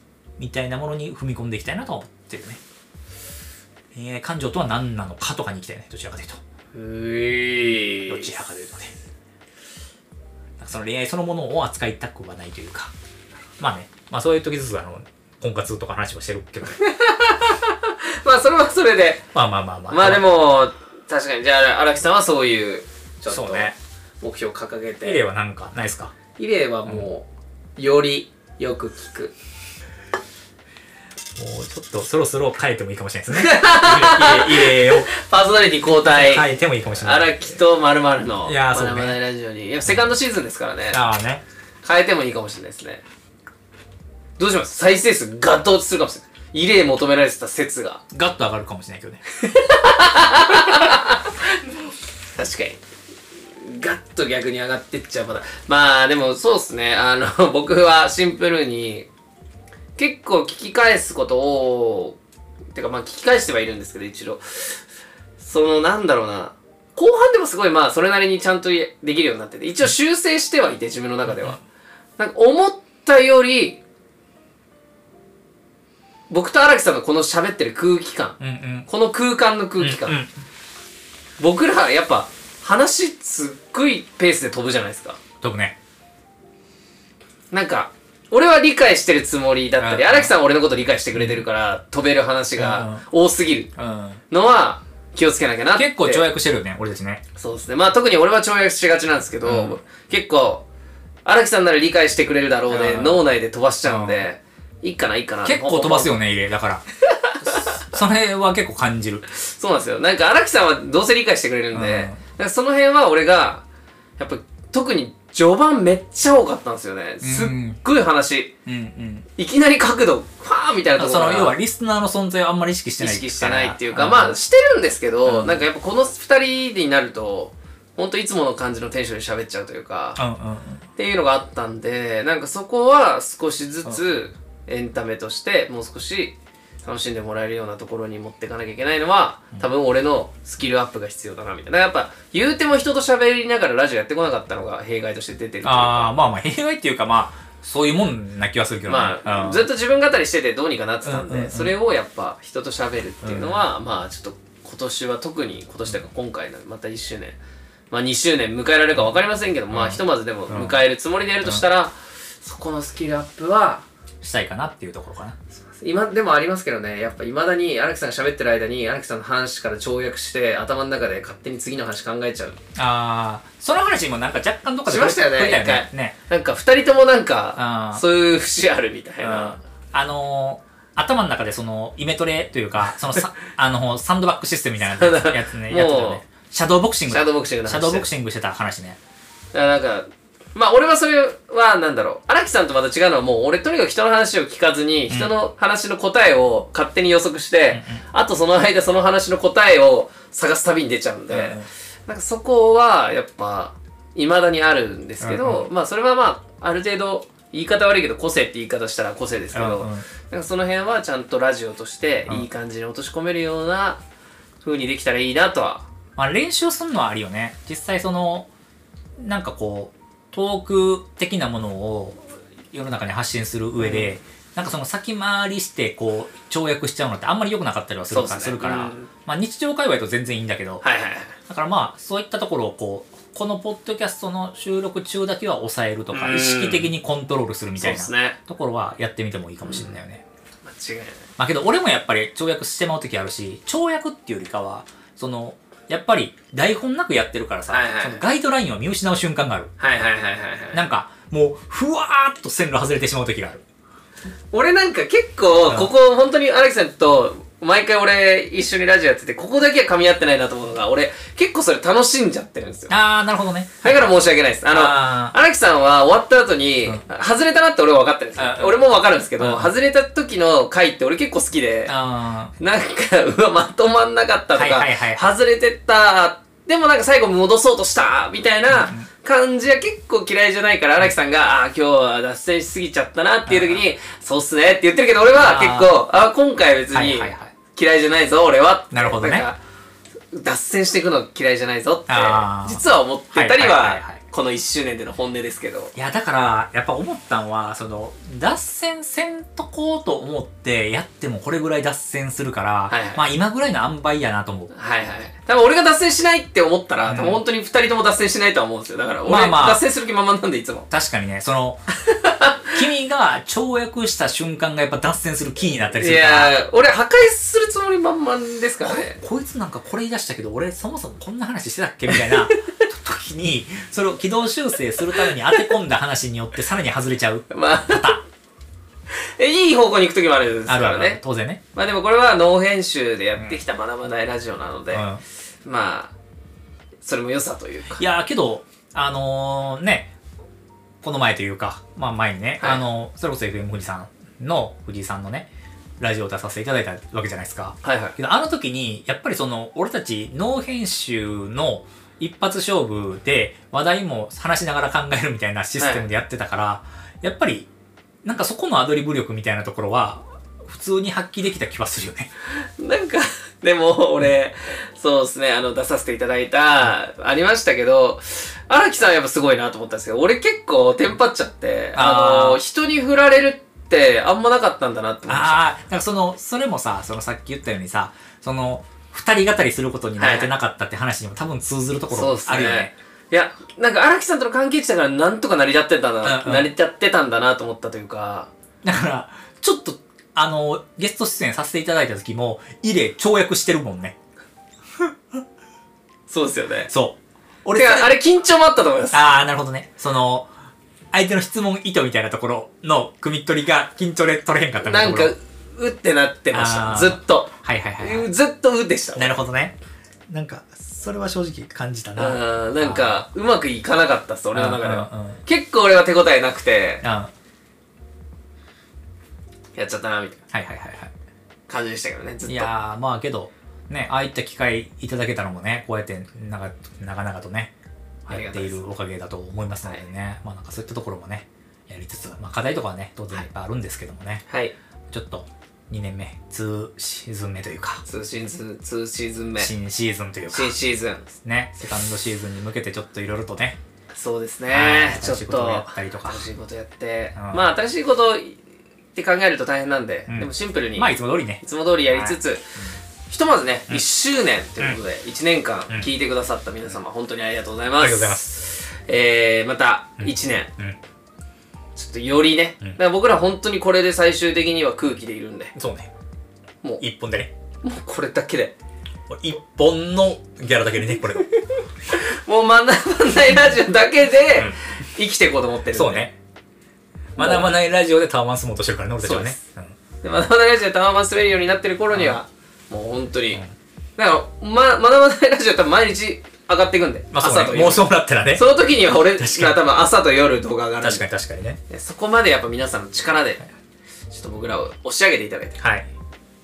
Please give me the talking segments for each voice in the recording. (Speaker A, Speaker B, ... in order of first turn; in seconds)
Speaker A: 0.4-2.6, 3.9-6.4, 8.1-8.9, 10.6-12.9, 13.6-16.8, 19.3-20.2, 23.3-23.8, 25.0-26.1, 31.4-35.1, 36.0-37.6, 38.4-39.2, 40.9-41.4, 48.1-49.2, 71.3-71.6, 78.4-78.9, 79.8-80.3, 85.4-85.7, 89.8-90.3, 91.1-91.5, 92.5-93.0, 93.8-94.2, 95.7-97.2, 99.4-99.8, 102.7-103.3, 103.8-104.2, 105.4-106.8, 107.5-109.2, 111.7-112.2, 117.2-117.8, 118.7-119.3, 121.0-124.4, 125.2-125.7, 130.2-130.8, 145.6-149.7, 151.0-151.7, 153.2-153.6, 159.7-160.8, 164.2-165.4, 172.8-176.2, 177.6-178.0, 179.2-189.0, 197.7-198.0, 201.3-201.7, 205.2-205.7, 209.5-210.1, 216.2-218.5, 219.2-230.8, 231.5-240.2, 241.4-249.7, 250.7-253.6, 262.9-264.1, 264.7-265.3, 268.4-268.8, 269.4-269.7, 271.9-272.5, 274.5-275.2, 278.7-279.1, 283.5-283.8, 285.3-286.0, 286.9-287.5, 288.9-289.5, 292.1-294.2, 295.9-304.7, 307.1-307.4, 309.2-309.8, 310.9-311.8, 312.7-316.5, 318.8-328.2, 330.7-331.6, 334.9-335.2, 337.9-340.1, 341.0-357.7, 358.2-362.3, 371.9-372.6, 375.3-382.9, 386.2-386.7, 388.8-394.1, 396.9-398.1, 399.1-400.5, 401.1-405.3, 406.5-408.3, 409.1-409.7, 410.3-413.2, 414.5-415.4, 417.0-417.3, 420.5-421.1, 422.4-427.7, 428.3-434.4, 435.1-438.0, 439.6-440.7, 441.4-443.8, 444.7-446.4, 447.4-447.6, 450.3-452.9, 458.0-458.4, 460.2-461.0, 465.8-466.1, 467.0-467.5, 469.3-471.5, 474.5-474.8, 475.9-476.3, 477.4-479.9, 482.1-482.4, 487.3-488.6, 489.4-489.8, 491.0-491.8, 495.8-496.1
Speaker B: 6.7-8.4, 16.7-19.2, 19.9-25.2, 26.4-27.2, 27.8-29.3, 33.3-41.0, 41.8-43.0, 44.4-48.0, 49.4-51.4, 52.4-52.8, 53.5-59.1, 60.0-62.2, 62.7-64.8, 65.4-71.6, 72.2-73.8, 76.3-80.2, 81.4-85.2, 87.5-93.7, 94.3-96.2, 97.3-100.6, 101.2-106.2, 107.3-107.8, 109.3-113.6, 114.2-118.5, 119.3-121.6, 123.0-130.2, 130.9-146.1, 148.9-157.4, 157.9-163.8, 165.6-172.6, 174.8-179.6, 184.8-186.2, 187.1-188.1, 189.5-214.0, 214.6-215.8, 223.8-224.1, 228.1-229.1, 230.8-231.3, 236.1-236.9, 237.8-238.4, 239.6-239.9, 240.7-241.3, 247.7-248.2, 249.8-250.9, 254.5-262.9, 263.8-271.9, 272.6-289.6, 290.3-295.9, 302.9-303.2, 304.7-310.9, 312.0-312.8, 316.0-319.2, 322.1-322.8, 325.2-325.7, 327.5-328.2, 329.4-331.2, 331.7-335.1, 335.6-336.1, 337.0-338.0, 342.6-342.8, 347.8-348.1, 355.8-356.1, 362.8-375.6, 380.2-380.5, 382.1-388.5, 396.3-396.9, 397.7-399.4, 404.8-409.4, 412.1-417.0, 419.7-420.4, 421.7-422.7, 428.3-428.8, 434.5-434.7, 438.0-439.7, 440.5-441.3, 444.1-448.6, 449.1-452.6, 453.3-460.7, 461.9-465.7, 467.8-468.7, 472.1-476.3, 477.4-477.7, 479.2-479.6, 480.2-483.6, 484.2-491.3, 491.9-493.7, 494.3-495.8